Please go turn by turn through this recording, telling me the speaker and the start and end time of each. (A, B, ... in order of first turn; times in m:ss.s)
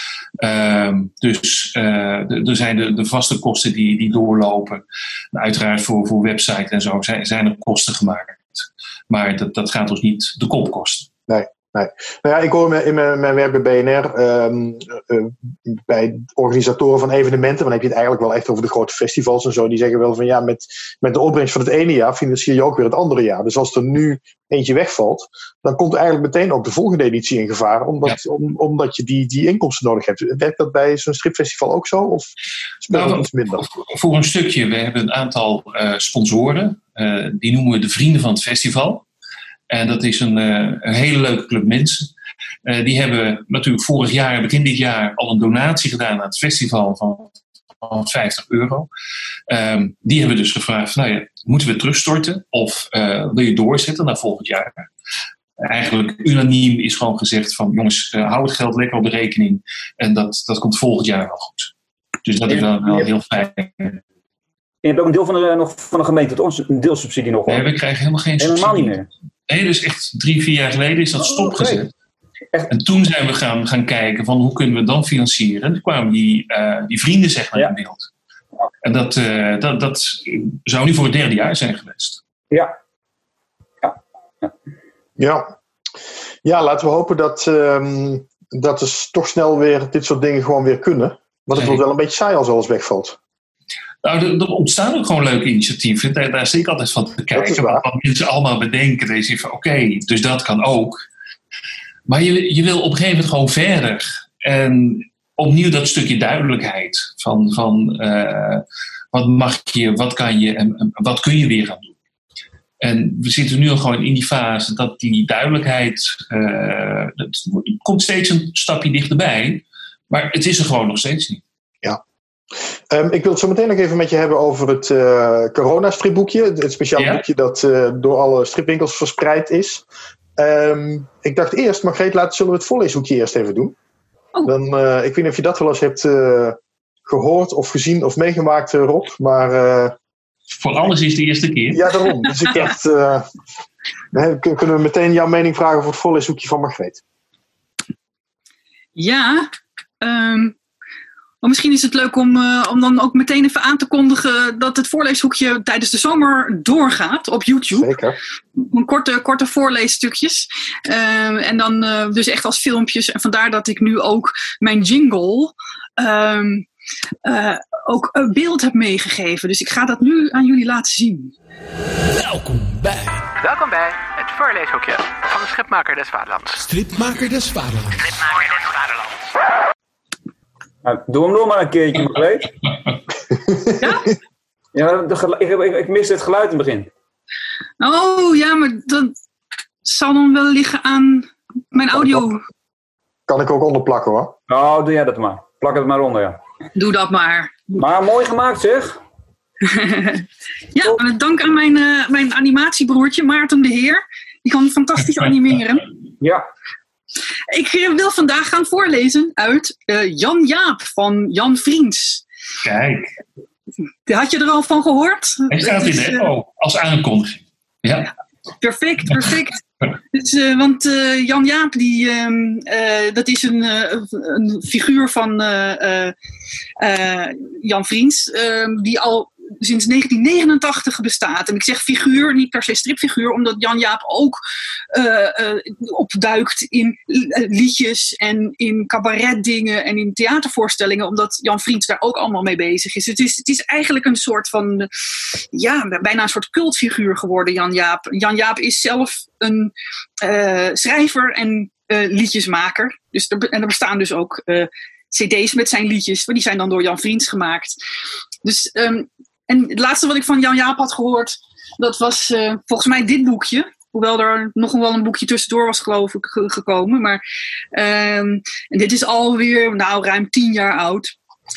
0:00.4-0:11.1 A
0:11.3-0:32.3 B
0:32.8-0:33.7 B
0:32.9-0:39.1 A
0:39.7-0:42.1 A
0:42.6-0:48.9 A
0:49.5-0:54.8 A
0:55.6-1:01.7 A
1:02.2-1:04.0 A
1:02.5-1:03.1 C
1:04.8-1:07.7 C
1:07.5-1:09.0 A
1:08.4-1:09.1 C
1:09.5-1:11.9 A
1:11.2-1:11.8 C
1:12.7-1:18.1 A
1:18.8-1:22.2 A
1:23.8-1:24.5 C
1:25.2-1:25.5 B
1:26.4-1:33.2 B
1:31.6-1:31.8 A
1:34.0-1:41.0 A
1:37.4-1:37.8 B
1:42.1-1:52.0 A
1:52.8-2:01.4 A
2:02.9-2:09.8 B
2:07.0-2:07.2 A
2:10.4-2:13.8 B
2:14.4-2:20.0 B
2:20.6-2:21.8 A
2:21.7-2:23.3 B
2:24.1-2:27.0 B
2:29.0-2:29.5 D
2:30.0-2:30.6 D
2:31.4-2:37.9 D
2:37.7-2:38.2 B
2:38.6-2:46.7 D
2:47.2-2:51.3 D
2:52.1-2:53.3 E
2:53.4-2:56.6 F
2:56.6-2:58.0 E
2:58.0-2:59.2 F
3:00.8-3:02.5 C
3:03.8-3:04.1 D
3:04.7-3:06.9 C
3:07.8-3:09.2 D
3:09.8-3:12.4 D
3:11.9-3:12.3 B
3:13.3-3:14.4 B
3:14.5-3:16.4 C
3:16.8-3:17.8 D
3:17.8-3:19.0 C
3:19.6-3:25.9 D
3:26.2-3:26.5 C
3:27.5-3:32.2 D
3:32.6-3:33.1 A
3:34.1-3:36.3 D
3:35.5-3:38.1 A
3:38.6-3:46.2 D
3:46.8-3:54.4 D
3:54.9-4:17.8 D
4:18.4-4:27.2 D
4:27.7-4:31.1 D